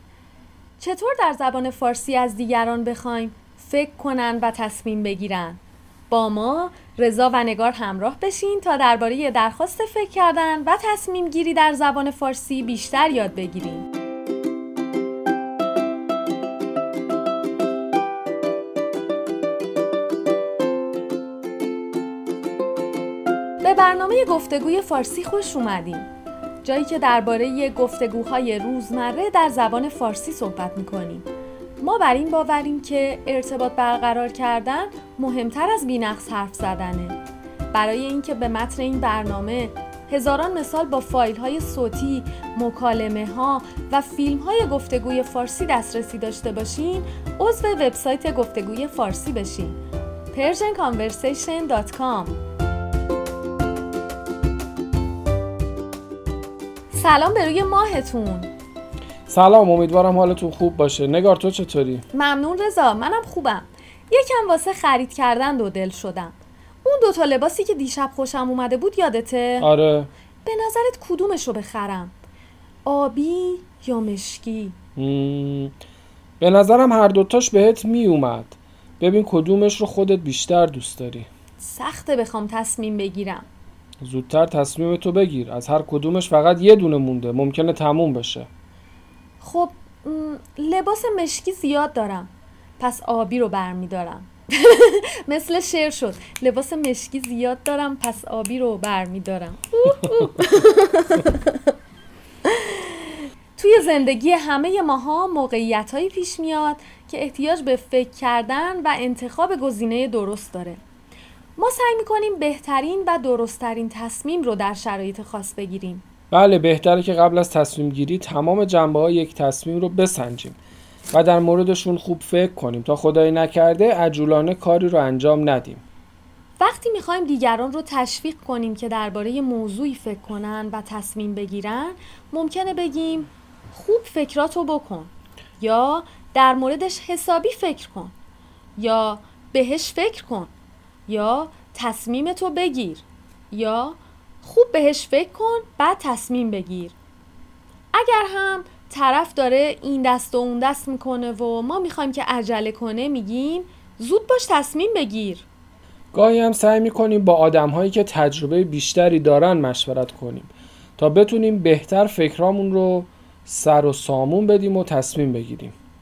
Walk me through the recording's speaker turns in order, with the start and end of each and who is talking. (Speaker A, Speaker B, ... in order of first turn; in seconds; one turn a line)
Speaker A: 0.8-13.9
Speaker A: 23.6-26.1
Speaker A: 26.6-31.2
Speaker A: 31.8-37.2
Speaker A: 37.7-49.8
Speaker A: 50.3-52.3
Speaker A: 56.9-58.5
Speaker B: 59.3-62.0
Speaker A: 62.1-69.7
Speaker B: 69.6-70.1
Speaker A: 70.4-72.1
Speaker A: 72.8-74.8
Speaker B: 75.0-75.7
Speaker B: 76.4-81.3
Speaker A: 81.6-83.5
Speaker B: 84.0-88.5
Speaker A: 89.4-101.7
Speaker A: 102.5-110.8
Speaker A: 111.6-116.0
Speaker B: 116.3-120.6
Speaker B: 121.1-125.8
Speaker A: 126.6-138.1
Speaker A: 138.8-140.5
Speaker A: 141.1-146.9
Speaker A: 147.9-155.4
Speaker B: 156.1-165.7